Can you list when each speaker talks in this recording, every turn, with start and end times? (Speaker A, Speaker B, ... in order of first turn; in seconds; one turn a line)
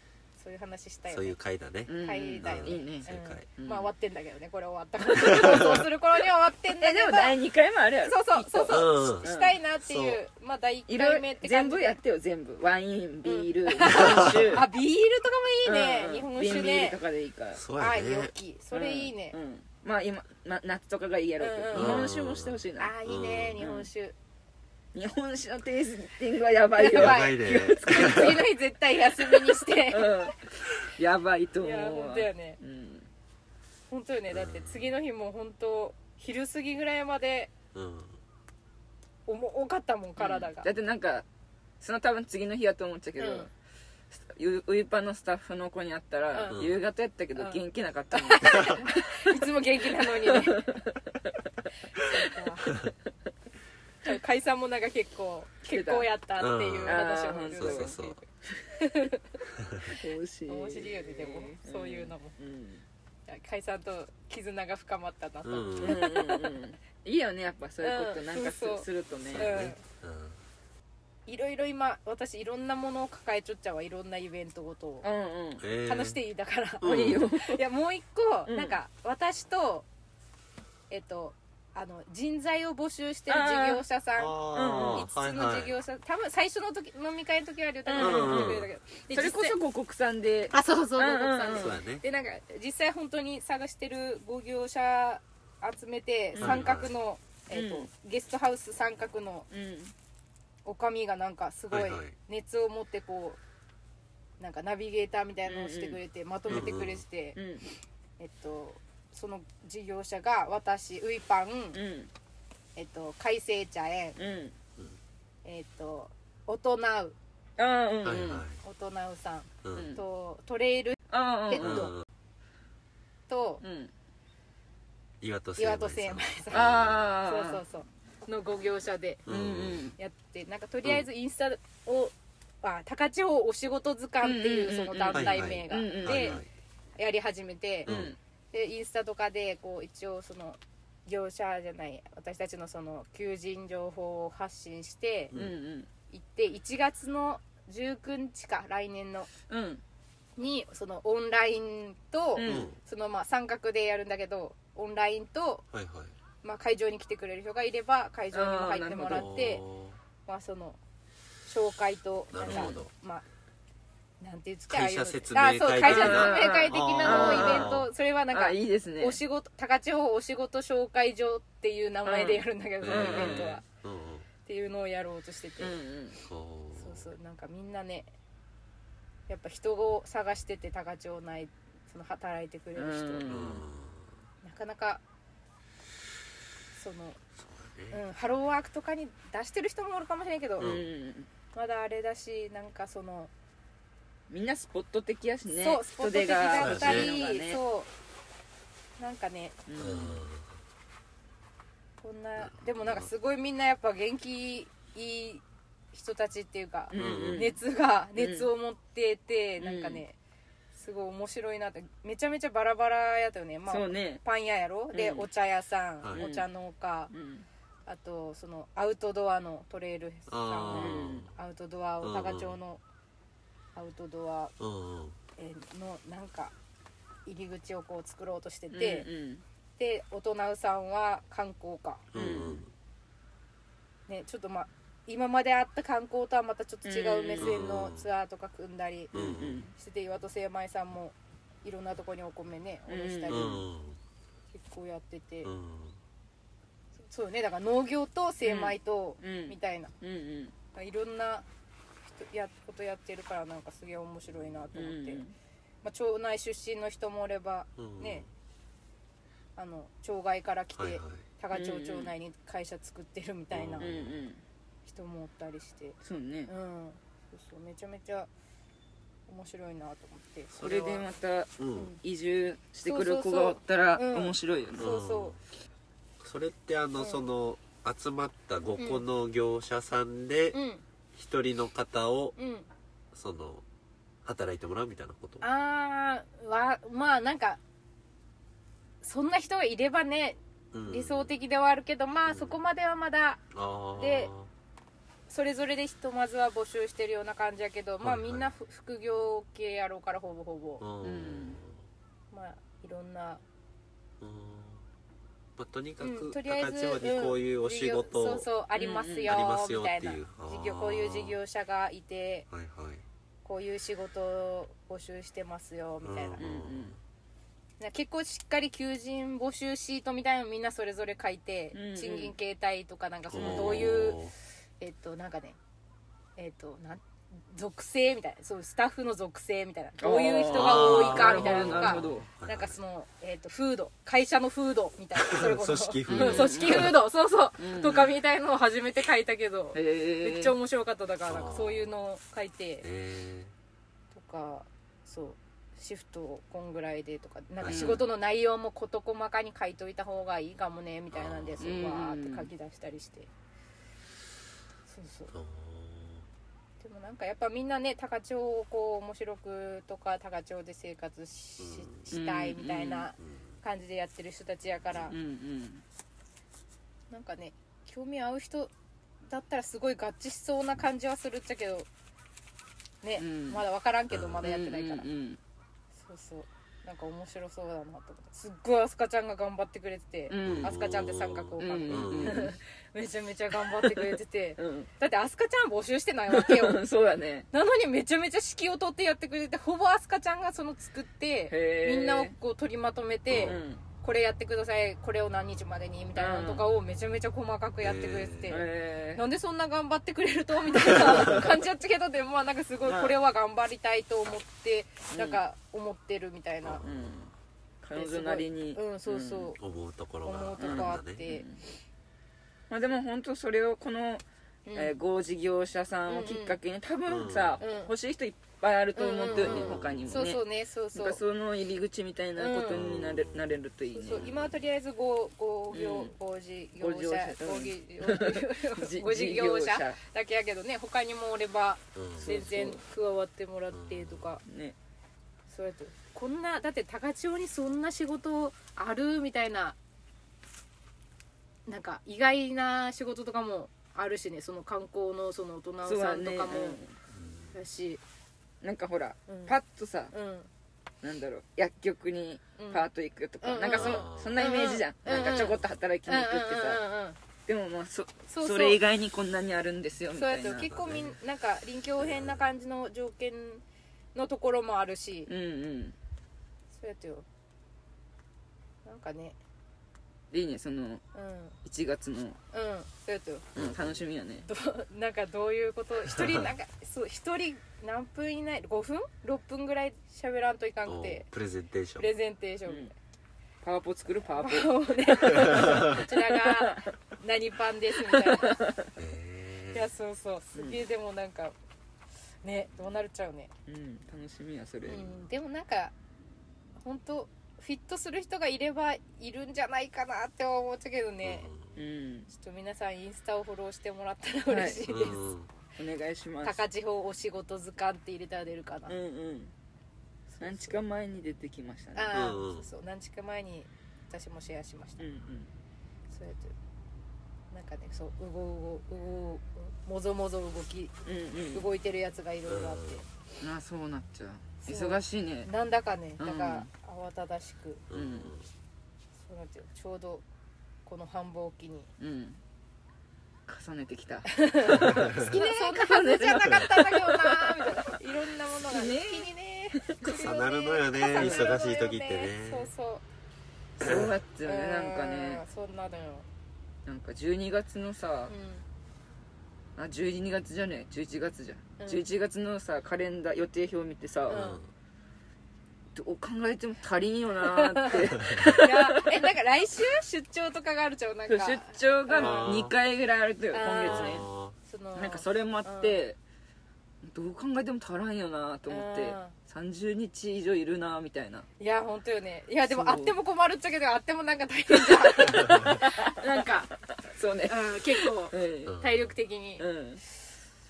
Speaker A: 0.4-1.4
Speaker B: 1.1-3.5
Speaker C: 1.9-3.9
Speaker A: 2.0-7.4
Speaker B: 5.2-5.8
Speaker C: 6.8-9.5
Speaker A: 8.0-12.0
Speaker B: 8.7-10.2
Speaker C: 10.9-14.6
Speaker A: 13.2-17.0
Speaker B: 13.9-14.5
Speaker C: 15.6-17.6
Speaker B: 17.5-18.3
Speaker A: 17.8-19.4
Speaker C: 18.7-22.9
Speaker A: 21.4-22.1
Speaker B: 21.7-23.6
Speaker A: 22.8-24.1
Speaker C: 23.6-23.9
Speaker C: 24.9-28.4
Speaker A: 26.8-30.2
Speaker B: 26.9-28.4
Speaker C: 29.3-33.1
Speaker A: 31.6-32.6
Speaker A: 33.9-37.5
Speaker B: 34.3-34.9
Speaker B: 37.7-38.2
Speaker A: 39.3-40.7
Speaker C: 40.2-41.2
Speaker C: 41.8-43.5
Speaker A: 43.2-43.5
Speaker C: 44.1-49.4
Speaker A: 46.3-46.6
Speaker B: 46.5-46.8
Speaker A: 47.3-50.7
Speaker C: 50.0-51.4
Speaker A: 52.0-52.8
Speaker A: 54.0-59.3
Speaker C: 55.7-56.1
Speaker B: 56.4-58.2
Speaker C: 56.8-58.0
Speaker B: 59.5-59.9
Speaker C: 59.9-62.8
Speaker A: 60.5-62.3
Speaker A: 63.3-66.5
Speaker B: 65.4-66.0
Speaker C: 65.8-69.7
Speaker A: 67.8-69.8
Speaker B: 69.3-70.4
Speaker A: 71.3-75.1
Speaker C: 75.0-75.6
Speaker B: 75.6-76.2
Speaker A: 75.8-79.9
Speaker B: 76.8-77.2
Speaker C: 76.8-77.6
Speaker C: 78.5-78.8
Speaker A: 80.9-89.6
Speaker C: 83.3-83.8
Speaker B: 84.2-85.7
Speaker C: 84.5-85.0
Speaker C: 87.8-91.8
Speaker B: 88.0-88.7
Speaker A: 90.5-99.5
Speaker B: 91.5-92.0
Speaker C: 96.3-96.7
Speaker B: 96.4-96.9
Speaker C: 97.5-97.9
Speaker C: 99.5-99.9
Speaker A: 100.6-103.4
Speaker B: 101.7-102.1
Speaker A: 104.4-107.4
Speaker C: 105.5-106.7
Speaker B: 106.5-107.0
Speaker C: 107.3-107.7
Speaker A: 108.2-111.8
Speaker C: 111.7-112.1
Speaker A: 112.8-114.2
Speaker C: 114.2-114.5
Speaker A: 115.4-117.2
Speaker C: 117.6-118.4
Speaker B: 118.0-118.6
Speaker A: 118.6-121.9
Speaker B: 119.6-119.9
Speaker C: 119.7-120.0
Speaker C: 121.1-121.9
Speaker B: 121.6-122.0
Speaker A: 123.3-123.6
Speaker C: 123.6-123.9
Speaker B: 125.2-127.0
Speaker A: 125.6-129.2
Speaker C: 126.5-127.6
Speaker B: 129.2-129.9
Speaker C: 129.3-129.9
Speaker A: 130.0-136.4
Speaker C: 134.2-136.4
Speaker B: 135.1-136.5
Speaker A: 137.0-137.9
Speaker B: 137.8-138.2
Speaker C: 137.8-138.2
Speaker A: 138.5-145.3
Speaker C: 145.3-145.9
Speaker A: 146.1-149.3
Speaker C: 149.5-149.8
Speaker A: 150.4-155.6
Speaker C: 152.3-152.7
Speaker B: 152.4-152.8
Speaker B: 155.7-156.1
Speaker A: 156.4-159.6
Speaker C: 158.3-159.3
Speaker B: 159.1-160.0
Speaker A: 160.3-160.8
Speaker A: 161.4-163.2
Speaker B: 162.3-162.9
Speaker C: 162.5-162.8
Speaker A: 164.2-173.6
Speaker B: 164.7-167.9
Speaker C: 165.8-167.8
Speaker C: 168.3-169.2
Speaker C: 172.0-173.5
Speaker B: 172.8-174.3
Speaker A: 174.4-175.7
Speaker C: 175.6-176.2
Speaker B: 176.2-177.1
Speaker A: 176.8-178.1
Speaker A: 179.3-183.3
Speaker C: 182.8-183.6
Speaker B: 183.3-184.1
Speaker A: 184.4-185.0
Speaker A: 186.7-187.2
Speaker B: 187.4-188.0
Speaker A: 187.9-190.8
Speaker C: 190.6-191.3
Speaker B: 190.6-190.8
Speaker A: 191.5-193.3
Speaker C: 194.3-197.6
Speaker A: 195.5-197.9
Speaker B: 196.6-197.1
Speaker A: 199.0-199.6
Speaker C: 199.7-200.2
Speaker B: 199.8-200.5
Speaker A: 202.0-210.2
Speaker B: 202.4-203.1
Speaker C: 206.9-207.6
Speaker B: 206.9-207.5
Speaker C: 208.2-208.5
Speaker C: 209.6-210.0
Speaker A: 210.7-217.1
Speaker C: 213.7-214.2
Speaker C: 214.9-215.3
Speaker C: 216.1-216.5
Speaker C: 217.1-217.5
Speaker A: 217.9-222.8
Speaker B: 220.3-221.3
Speaker C: 220.7-221.3
Speaker B: 222.0-222.6
Speaker A: 223.7-224.5
Speaker B: 224.6-225.2
Speaker A: 225.4-226.5
Speaker A: 227.2-229.1
Speaker C: 228.7-229.4
Speaker A: 229.8-232.1
Speaker B: 232.1-232.7
Speaker C: 232.1-232.6
Speaker A: 234.1-239.1
Speaker C: 236.8-237.5
Speaker B: 237.4-238.1
Speaker B: 239.1-239.6
Speaker C: 239.1-239.7
Speaker A: 239.7-243.6
Speaker C: 242.9-243.6
Speaker B: 243.3-244.0
Speaker A: 244.5-245.5
Speaker B: 245.4-246.0
Speaker A: 247.0-249.9
Speaker C: 248.4-250.5
Speaker A: 250.7-251.4
Speaker A: 252.0-255.2
Speaker B: 254.3-254.7
Speaker C: 254.7-255.3
Speaker A: 255.8-258.2
Speaker B: 257.8-258.3
Speaker A: 259.6-263.9
Speaker B: 260.8-261.2
Speaker C: 261.5-262.1
Speaker B: 263.5-264.2
Speaker C: 263.8-264.4
Speaker A: 264.8-266.0
Speaker C: 266.0-266.5
Speaker A: 266.5-268.3
Speaker A: 269.3-271.0
Speaker B: 270.5-270.9
Speaker C: 270.6-274.9
Speaker B: 271.6-271.9
Speaker A: 271.7-272.0
Speaker A: 272.9-275.4
Speaker B: 274.8-275.4
Speaker B: 276.2-280.6
Speaker A: 277.0-277.2
Speaker A: 278.8-279.0
Speaker A: 280.5-280.8
Speaker B: 281.1-282.3
Speaker A: 282.4-282.7
Speaker B: 283.1-283.6
Speaker B: 284.2-285.4
Speaker A: 285.4-287.6
Speaker A: 289.0-293.4
Speaker B: 290.7-291.3
Speaker B: 292.3-292.6
Speaker B: 293.5-294.5
Speaker A: 293.9-294.3
Speaker A: 295.3-300.8
Speaker B: 298.0-298.5
Speaker B: 300.8-301.8
Speaker C: 301.0-301.6
Speaker A: 302.3-303.4
Speaker B: 304.2-304.9
Speaker B: 305.6-308.5
Speaker A: 306.0-312.5
Speaker C: 308.8-309.3
Speaker B: 309.2-311.4
Speaker B: 312.5-313.0
Speaker A: 313.4-316.4
Speaker B: 316.0-317.0
Speaker C: 316.4-317.0
Speaker A: 317.8-325.6
Speaker C: 321.7-322.3
Speaker B: 323.3-324.3
Speaker C: 323.3-323.9
Speaker A: 326.4-342.9
Speaker C: 330.0-332.3
Speaker B: 330.5-332.8
Speaker B: 335.1-336.9
Speaker C: 336.1-337.0
Speaker C: 337.6-338.1
Speaker C: 339.7-340.5
Speaker B: 341.3-341.9
Speaker B: 342.8-343.5
Speaker A: 344.1-353.3
Speaker B: 347.6-348.0
Speaker C: 347.6-348.0
Speaker B: 351.1-351.9
Speaker C: 351.6-352.5
Speaker A: 354.9-355.3
Speaker B: 355.3-356.2
Speaker A: 356.8-365.1
Speaker B: 361.6-362.1
Speaker C: 362.1-363.1
Speaker C: 365.1-365.8
Speaker A: 367.1-368.7
Speaker A: 369.3-371.9
Speaker A: 373.0-375.1
Speaker C: 373.2-373.6
Speaker B: 374.1-374.5
Speaker C: 374.4-375.4
Speaker A: 376.0-386.8
Speaker C: 380.3-380.8
Speaker B: 380.4-382.5
Speaker C: 381.6-382.5
Speaker C: 383.5-384.9
Speaker C: 386.3-387.5
Speaker A: 387.5-406.8
Speaker C: 391.5-392.3
Speaker B: 393.3-393.6
Speaker C: 393.4-393.8
Speaker C: 396.1-396.6
Speaker B: 397.8-398.6
Speaker C: 398.5-399.2
Speaker C: 401.0-401.5
Speaker C: 402.8-403.2
Speaker C: 405.1-405.4
Speaker B: 406.6-407.3
Speaker C: 406.8-409.5
Speaker A: 407.9-409.6
Speaker B: 409.6-411.2
Speaker A: 410.2-411.4
Speaker C: 410.6-411.6
Speaker C: 412.7-414.2
Speaker A: 414.6-414.9
Speaker C: 414.7-424.2
Speaker A: 416.1-416.6
Speaker B: 417.1-417.6
Speaker A: 417.6-417.9
Speaker A: 418.9-421.2
Speaker B: 419.3-420.2
Speaker A: 422.4-422.9
Speaker B: 422.7-423.6
Speaker A: 423.9-434.4
Speaker B: 424.1-424.6
Speaker C: 425.7-426.1
Speaker C: 426.8-430.0
Speaker B: 431.9-432.3
Speaker C: 432.2-432.8
Speaker B: 433.7-434.3
Speaker C: 434.4-434.8
Speaker A: 435.5-439.8
Speaker A: 441.6-446.8
Speaker C: 445.8-446.9
Speaker B: 447.1-447.5
Speaker A: 447.5-448.0
Speaker C: 448.6-450.1
Speaker A: 449.3-449.6
Speaker A: 450.1-450.5
Speaker C: 451.0-456.8
Speaker A: 452.6-452.9
Speaker A: 453.4-457.2
Speaker B: 453.7-454.4
Speaker B: 455.1-455.6
Speaker C: 457.5-460.7
Speaker A: 458.3-458.8
Speaker A: 460.1-463.6
Speaker B: 460.6-461.2
Speaker B: 462.0-462.4
Speaker A: 464.1-465.3
Speaker C: 465.3-465.9
Speaker A: 466.7-467.2
Speaker A: 468.8-469.4
Speaker C: 470.3-471.0
Speaker A: 471.1-471.6
Speaker C: 471.6-472.4
Speaker A: 472.5-473.5
Speaker B: 473.5-474.0
Speaker C: 473.6-474.5
Speaker A: 474.5-481.2
Speaker B: 476.1-476.5
Speaker B: 480.9-482.1
Speaker A: 482.0-482.9
Speaker C: 482.7-482.9
Speaker C: 483.6-486.9
Speaker A: 484.3-488.6
Speaker B: 485.5-486.0
Speaker C: 488.0-488.9
Speaker B: 488.9-489.9
Speaker A: 489.7-491.5
Speaker C: 490.5-490.8
Speaker A: 492.4-493.5
Speaker C: 493.7-495.1
Speaker A: 494.9-495.9
Speaker A: 496.8-501.5
Speaker B: 501.2-501.7
Speaker C: 501.7-502.3
Speaker A: 502.3-505.2
Speaker C: 504.5-504.9
Speaker B: 504.9-505.5
Speaker C: 505.8-506.6
Speaker A: 506.4-508.9
Speaker C: 508.9-509.5
Speaker A: 510.3-510.8
Speaker C: 510.4-512.2
Speaker A: 511.9-515.0
Speaker B: 512.1-512.7
Speaker C: 515.0-515.5
Speaker A: 516.1-516.5
Speaker A: 517.5-520.9
Speaker C: 521.0-521.7
Speaker A: 521.5-523.0
Speaker B: 522.5-523.0
Speaker C: 523.4-525.5
Speaker A: 524.6-527.8
Speaker C: 526.2-526.7
Speaker B: 527.9-528.5
Speaker C: 527.9-528.3
Speaker A: 529.2-530.2
Speaker A: 530.9-531.9
Speaker C: 532.0-532.4
Speaker C: 533.5-538.0
Speaker A: 534.3-543.0
Speaker B: 534.8-535.4
Speaker C: 538.7-540.3
Speaker B: 540.1-542.7
Speaker C: 541.1-541.6
Speaker C: 543.8-545.4
Speaker B: 543.8-544.1
Speaker A: 544.4-546.2
Speaker C: 546.8-548.3
Speaker A: 548.3-548.6
Speaker C: 549.8-554.4
Speaker A: 551.8-552.0
Speaker B: 554.3-554.7
Speaker A: 554.3-554.6
Speaker C: 555.9-559.2
Speaker A: 557.5-562.5
Speaker C: 561.3-564.3
Speaker B: 562.1-562.7
Speaker A: 563.5-566.0
Speaker B: 563.8-564.5
Speaker C: 564.9-566.2
Speaker C: 567.0-571.5
Speaker A: 568.7-569.3
Speaker A: 571.6-576.7
Speaker C: 572.6-573.1
Speaker C: 574.7-578.8
Speaker A: 577.5-579.6
Speaker B: 578.6-579.1
Speaker C: 579.6-580.0